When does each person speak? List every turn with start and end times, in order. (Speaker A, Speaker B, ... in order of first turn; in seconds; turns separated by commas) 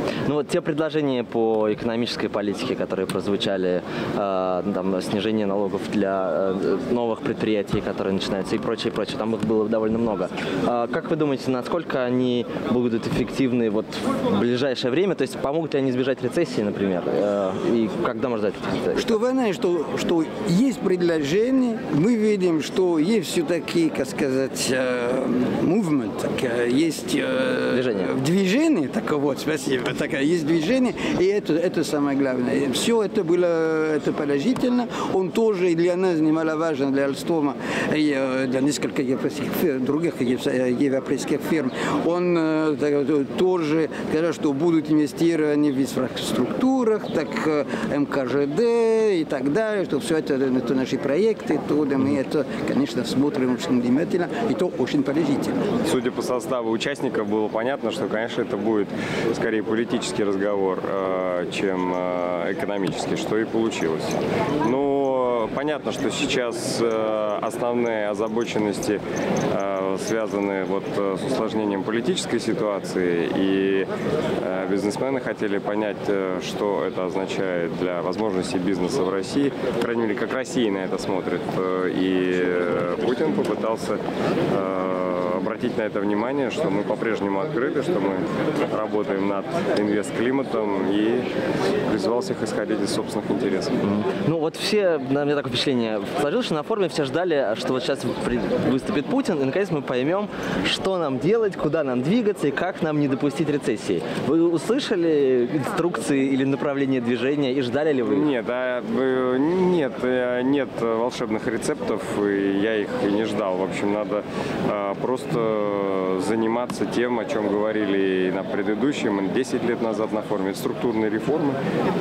Speaker A: 0.3-19.1, Speaker B: 18.9-55.7, Speaker A: 27.7-28.1, Speaker C: 55.9-73.9, Speaker C: 74.4-84.0, Speaker C: 84.5-91.3, Speaker C: 91.9-93.8, Speaker A: 93.8-108.3, Speaker C: 108.1-121.6